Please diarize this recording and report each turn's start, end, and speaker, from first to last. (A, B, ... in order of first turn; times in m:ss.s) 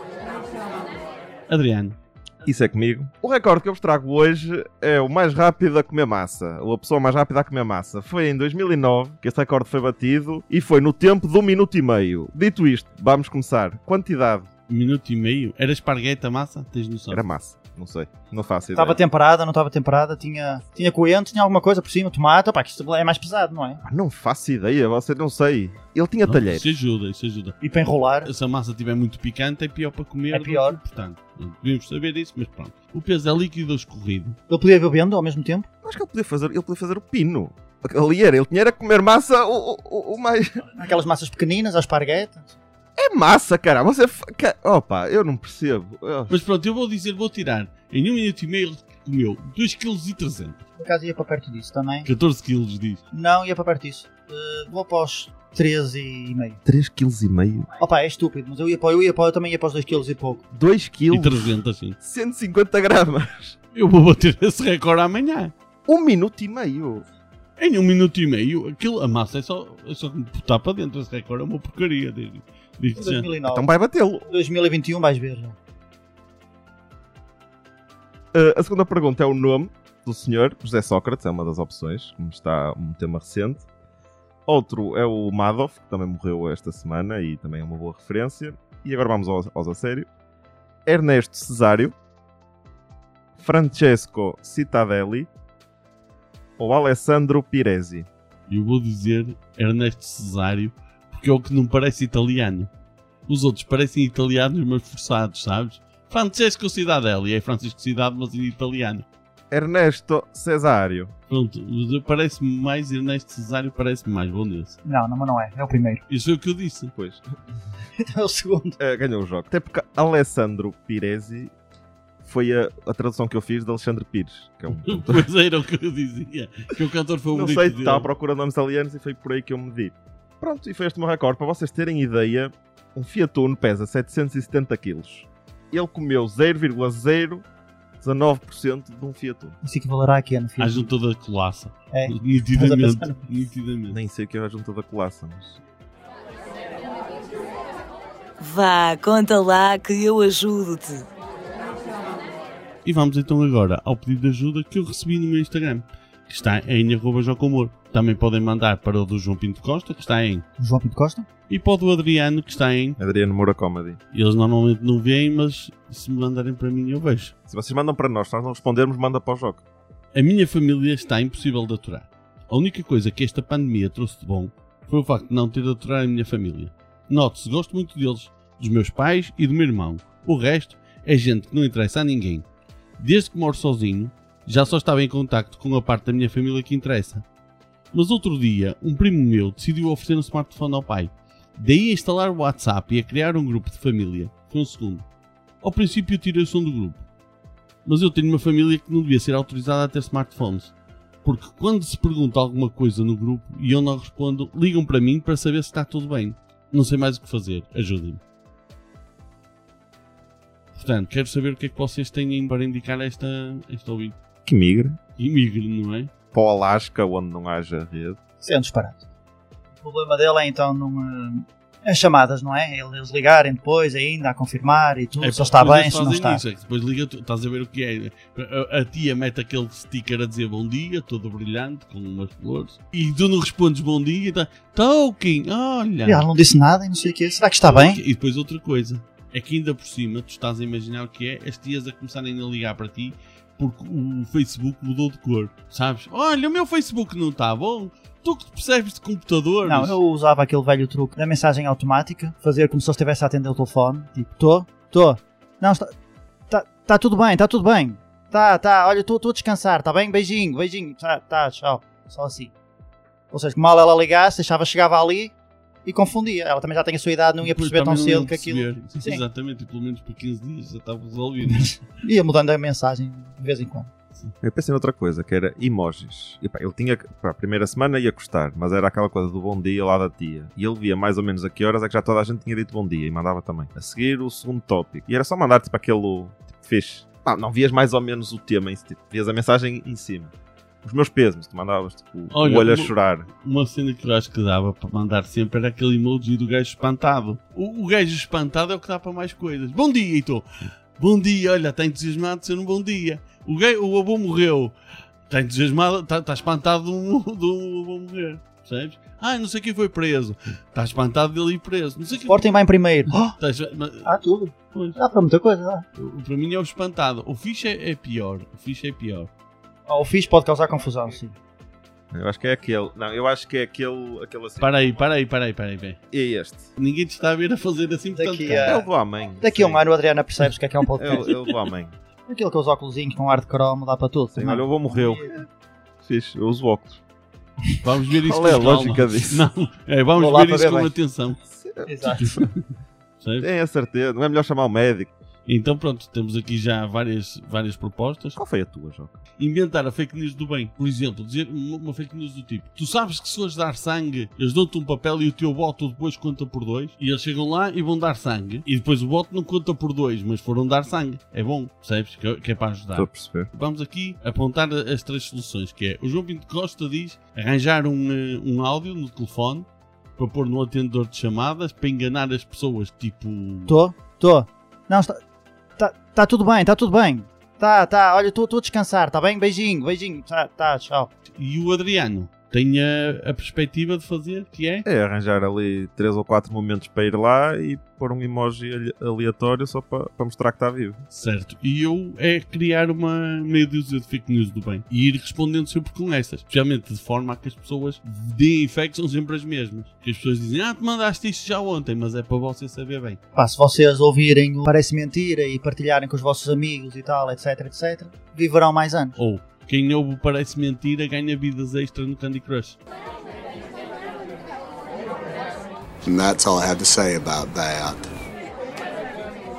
0:01.5-0:02.0 A
0:02.4-0:14.5 B
0:14.7-0:17.2 A
0:17.1-0:19.0 B
0:18.7-0:23.8 C
0:23.8-0:26.7 B
0:26.2-0:27.5 A
0:27.6-0:28.3 C
0:28.2-0:34.4 A
0:30.3-0:30.8 C
0:34.5-0:35.7 C
0:35.8-0:40.6 B
0:40.7-0:42.6 C
0:43.0-0:46.4 B
0:46.3-0:50.6 A
0:50.8-0:52.1 C
0:52.0-0:53.0 A
0:53.1-0:56.6 C
0:56.6-0:57.7 B
0:57.8-1:00.4 C
1:00.5-1:03.6 B
1:01.2-1:02.0 A
1:03.7-1:05.5 A
1:05.9-1:07.0 B
1:07.6-1:13.3 A
1:13.0-1:13.7 C
1:13.4-1:14.3 B
1:14.3-1:15.6 C
1:18.3-1:23.6 B
1:24.5-1:30.1 B
1:30.9-1:31.9 B
1:33.4-1:35.3 B
1:36.6-1:38.1 B
1:38.5-1:42.7 A
1:43.3-1:49.0 A
1:49.5-1:51.1 B
1:51.3-1:54.7 A
1:54.8-1:56.0 C
1:56.1-1:56.9 A
1:57.0-1:57.2 B
1:58.0-1:58.8 C
1:58.8-2:01.5 B
2:02.2-2:05.3 B
2:04.8-2:08.1 A
2:07.3-2:17.4 B
2:18.0-2:19.6 B
2:19.6-2:20.9 C
2:20.6-2:24.0 A
2:21.9-2:23.2 C
2:23.9-2:25.6 B
2:28.4-2:31.0 D
2:32.8-2:40.4 A
2:40.6-2:41.3 C
2:41.5-2:43.0 A
2:43.0-2:44.0 B
2:44.1-2:47.3 A
2:47.5-2:49.6 B
2:50.1-3:02.4 A
3:03.0-3:07.2 A
3:07.9-3:15.0 A
3:15.6-3:17.0 A
3:17.8-3:20.7 A
3:21.2-3:28.2 A
3:30.7-3:34.2 A
3:34.4-3:35.0 B
3:35.2-3:36.1 A
3:36.3-3:38.2 B
3:38.4-3:39.0 C
3:39.8-3:46.4 C
3:45.2-3:56.2 A
3:56.0-3:58.0 C
3:57.6-4:10.0 A
4:09.6-4:15.9 C
4:16.5-4:22.5 C
4:23.3-4:25.3 C
4:25.8-4:29.2 C
4:27.4-4:31.6 A
4:32.0-4:33.9 C
4:34.4-4:53.3 B
4:52.3-5:00.4 A
5:01.0-5:04.7 A
5:05.3-5:12.4 A
5:12.3-5:13.4 C
5:13.4-5:14.1 A
5:14.0-5:15.8 C
5:14.7-5:15.0 A
5:16.0-5:19.3 A
5:19.9-5:21.3 C
5:22.1-5:24.7 B
5:24.6-5:26.0 A
5:26.1-5:26.7 B
5:26.8-5:28.7 A
5:28.1-5:28.9 C
5:28.6-5:29.8 B
5:29.4-5:31.3 C
5:31.0-5:32.0 B
5:32.3-5:35.3 C
5:34.3-5:35.4 B
5:36.0-5:37.0 B
5:37.8-5:41.4 A
5:38.1-5:39.4 B
5:40.2-5:40.9 C
5:41.5-5:42.4 B
5:41.8-5:42.4 C
5:43.2-5:43.5 A
5:43.4-5:45.1 B
5:45.5-5:48.4 A
5:48.3-5:49.2 B
5:49.4-6:09.6 A
6:02.9-6:03.5 B
6:10.2-6:13.7 A
6:13.7-6:15.2 C
6:15.8-6:21.1 C
6:21.3-6:24.8 A
6:24.8-6:31.0 B
6:31.1-6:43.2 A
6:43.3-6:49.2 C
6:49.2-6:52.8 A
6:56.0-6:58.1 E